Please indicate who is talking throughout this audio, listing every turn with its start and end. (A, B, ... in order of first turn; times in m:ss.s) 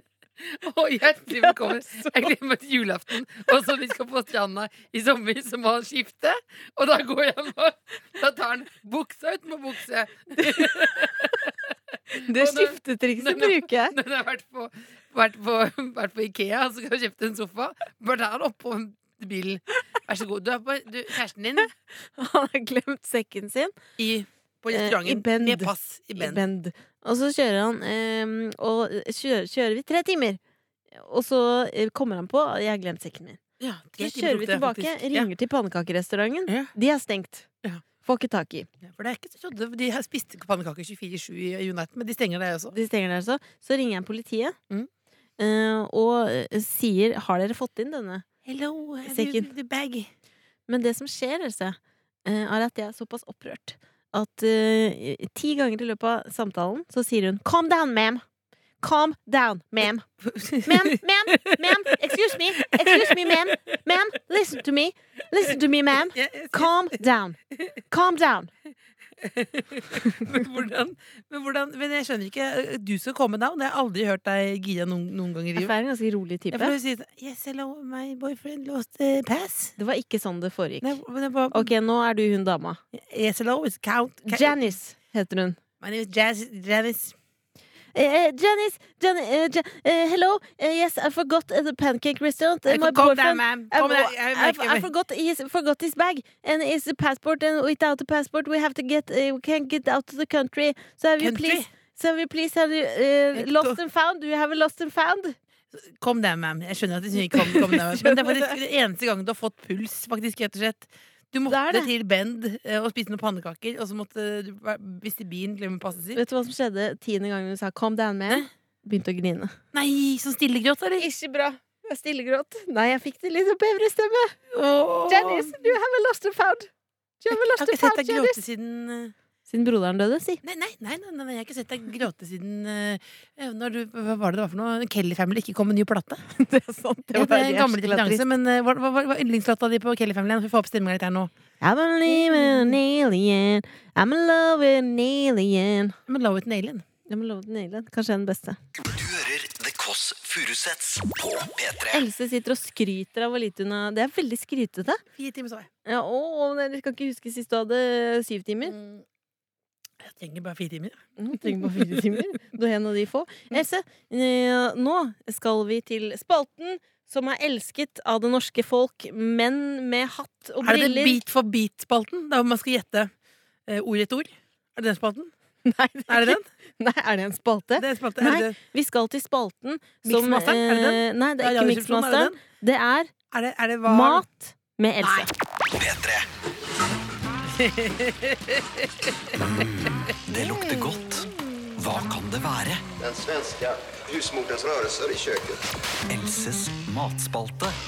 0:00.4-0:21.7 A
0:01.4-0:02.1 B
0:10.4-0:11.2 B
0:12.1-0:14.0 B
0:22.2-0:23.8 B
0:24.0-0:26.4 A
0:24.7-0:30.4 B
0:30.9-0:33.4 B
0:33.6-0:35.3 A
0:34.0-0:37.5 B
0:38.0-0:38.7 B
0:38.8-0:42.8 A
0:42.7-0:44.6 B
0:45.4-0:48.3 B
0:48.4-0:50.1 A
0:49.1-0:49.5 B
0:50.7-0:58.2 B
0:58.8-1:00.1 B
1:00.2-1:03.8 A
1:00.6-1:07.4 B
1:06.1-1:06.9 A
1:07.9-1:08.5 B
1:09.2-1:15.7 A
1:10.0-1:10.4 B
1:15.6-1:16.8 B
1:16.5-1:19.8 A
1:19.8-1:21.0 B
1:20.8-1:21.7 A
1:21.5-1:22.8 B
1:22.9-1:24.6 A
1:24.3-1:25.6 B
1:25.8-1:27.2 A
1:28.0-1:45.4 B
1:32.7-1:34.9 A
1:41.2-1:41.7 A
1:43.3-1:43.8 A
1:45.7-1:56.2 A
1:47.3-1:48.6 B
1:51.5-1:51.9 B
1:56.2-1:59.6 B
1:59.7-2:01.1 A
2:01.0-2:04.4 B
2:04.5-2:05.8 A
2:05.1-2:06.7 B
2:07.2-2:08.4 B
2:07.3-2:09.2 A
2:09.5-2:10.4 B
2:10.4-2:16.2 A
2:16.4-2:18.2 B
2:17.1-2:21.3 A
2:21.6-2:26.0 B
2:22.1-2:22.8 A
2:26.1-2:26.8 A
2:27.1-2:28.6 B
2:28.9-2:32.0 C
2:31.9-2:35.0 B
2:35.2-2:35.7 A
2:35.8-2:38.8 B
2:38.6-2:39.0 A
2:40.0-2:42.2 A
2:41.2-2:51.2 B
2:50.6-2:53.1 A
2:53.7-2:55.3 A
2:55.6-3:03.1 B
2:56.1-2:56.4 A
2:57.8-2:58.6 A
3:00.0-3:02.4 A
3:03.3-3:04.3 A
3:03.9-3:05.3 B
3:05.0-3:05.3 A
3:05.8-3:06.3 C
3:07.5-3:09.4 A
3:09.4-3:12.9 C
3:10.4-3:11.3 A
3:13.0-3:15.6 D
3:16.1-3:17.8 C